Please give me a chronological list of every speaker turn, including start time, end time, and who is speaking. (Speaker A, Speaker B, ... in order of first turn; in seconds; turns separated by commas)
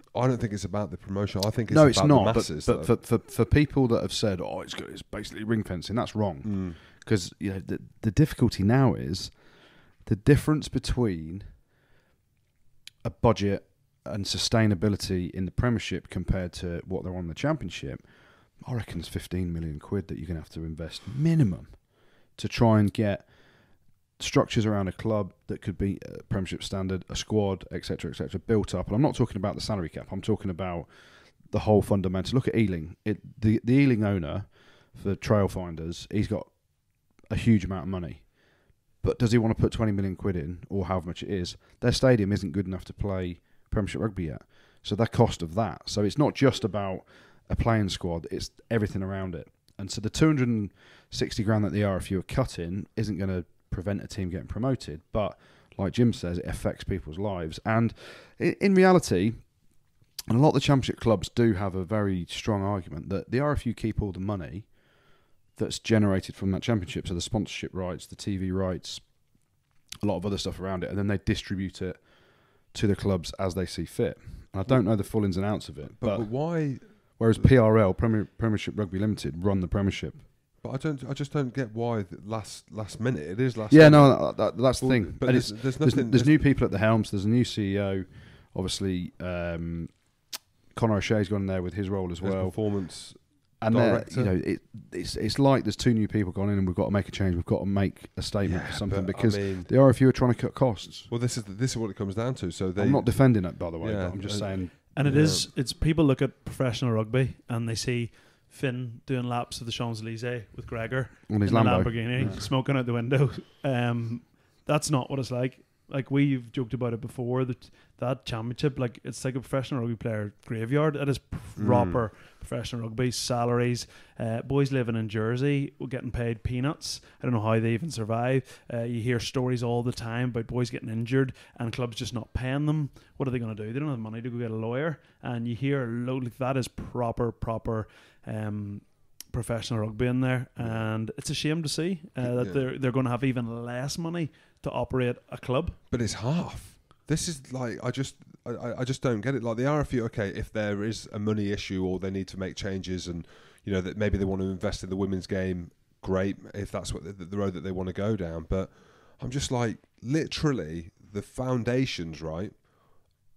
Speaker A: 0.1-2.9, Speaker B: 1.7-11.7, Speaker A: 6.4-6.8, Speaker B: 13.0-80.3, Speaker A: 74.7-75.1, Speaker A: 75.8-77.5, Speaker A: 80.6-86.5, Speaker B: 83.7-101.1, Speaker A: 92.2-94.3, Speaker A: 98.4-99.7, Speaker A: 101.1-105.5, Speaker B: 102.8-104.9, Speaker C: 104.9-145.8, Speaker B: 111.3-112.4, Speaker A: 121.5-122.0, Speaker A: 140.6-140.9, Speaker A: 142.2-142.7, Speaker A: 145.9-163.1